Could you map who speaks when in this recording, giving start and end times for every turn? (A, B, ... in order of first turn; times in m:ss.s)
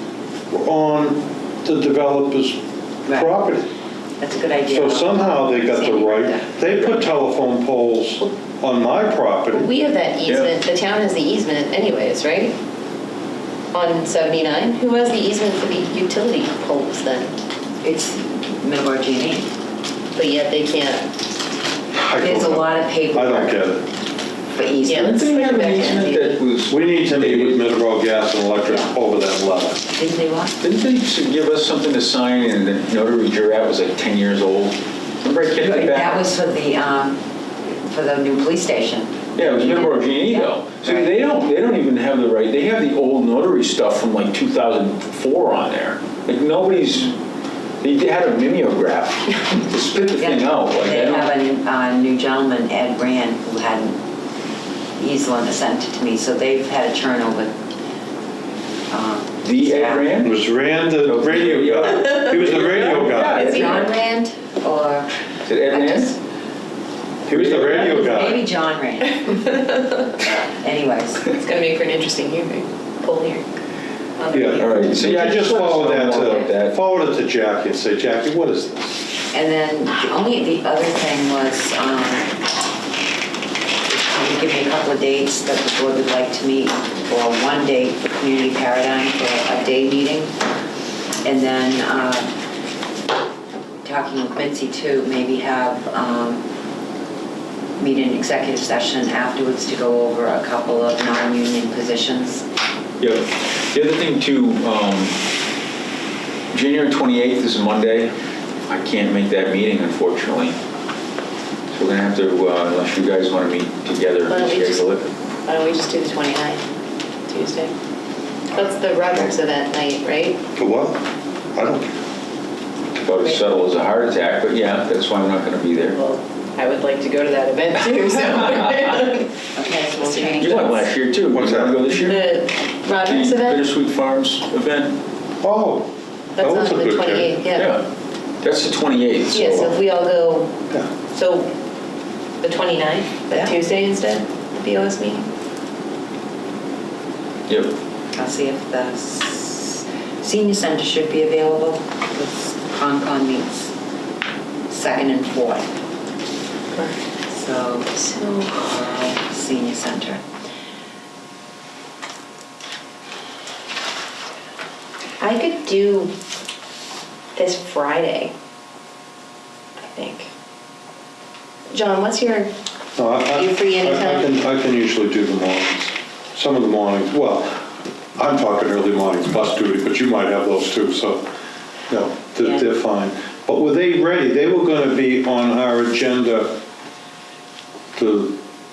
0:00.5-0:02.6 A
0:03.0-0:03.4 B
0:03.1-0:03.7 A
0:04.2-0:07.1 B
0:04.7-0:09.7 A
0:09.5-0:12.6 C
0:10.2-0:10.5 D
0:13.7-0:17.4 C
0:17.8-0:19.5 B
0:20.1-0:21.1 C
0:21.9-0:23.8 A
0:22.2-0:23.6 B
0:24.5-0:26.0 B
0:24.8-0:26.4 C
0:25.1-0:27.7 D
0:26.7-0:29.8 A
0:28.6-0:28.9 B
0:29.9-0:30.6 B
0:30.6-0:36.2 D
0:35.6-0:37.2 B
0:37.8-0:41.1 B
0:39.4-0:47.2 D
0:47.8-0:51.3 D
0:50.1-0:54.0 B
0:55.0-0:57.5 B
0:58.9-1:00.1 B
0:59.4-1:00.4 D
1:00.2-1:03.6 A
1:01.0-1:03.9 D
1:03.1-1:05.1 B
1:03.4-1:03.8 C
1:05.4-1:06.1 D
1:05.7-1:06.2 B
1:07.3-1:08.4 A
1:07.3-1:08.1 D
1:07.7-1:09.4 B
1:09.2-1:10.0 C
1:10.2-1:11.3 B
1:11.3-1:13.5 C
1:14.2-1:15.1 C
1:14.3-1:19.0 A
1:14.6-1:16.8 D
1:16.1-1:16.5 B
1:19.3-1:22.3 B
1:23.9-1:30.3 B
1:31.2-1:32.3 B
1:33.8-1:36.4 B
1:37.8-1:42.4 B
1:43.0-1:45.2 D
1:46.5-1:48.2 D
1:48.7-1:50.6 D
1:51.7-1:55.1 D
1:54.3-1:54.9 C
1:55.4-1:56.6 C
1:57.3-1:57.7 C
1:58.5-2:00.4 C
2:00.6-2:01.0 A
2:01.5-2:01.9 A
2:03.0-2:06.0 D
2:05.9-2:09.4 C
2:09.6-2:10.9 B
2:10.0-2:10.6 C
2:10.4-2:12.3 D
2:11.3-2:11.8 A
2:11.9-2:13.6 C
2:13.0-2:15.0 D
2:15.4-2:17.4 A
2:16.4-2:17.7 C
2:17.6-2:17.9 D
2:18.4-2:19.6 D
2:19.3-2:21.5 C
2:19.3-2:19.7 A
2:22.4-2:25.3 C
2:27.5-2:27.7 D
2:28.1-2:33.7 B
2:34.7-2:35.7 B
2:36.7-2:37.0 C
2:37.3-2:37.9 B
2:37.9-2:38.7 C
2:38.6-2:40.2 B
2:45.2-2:46.1 C
2:47.3-2:48.3 C
2:49.9-2:50.3 C
2:51.7-2:52.5 C
2:53.0-2:57.5 A
2:53.3-2:54.3 C
2:58.2-3:01.2 A
3:01.9-3:06.6 A
3:07.9-3:08.4 A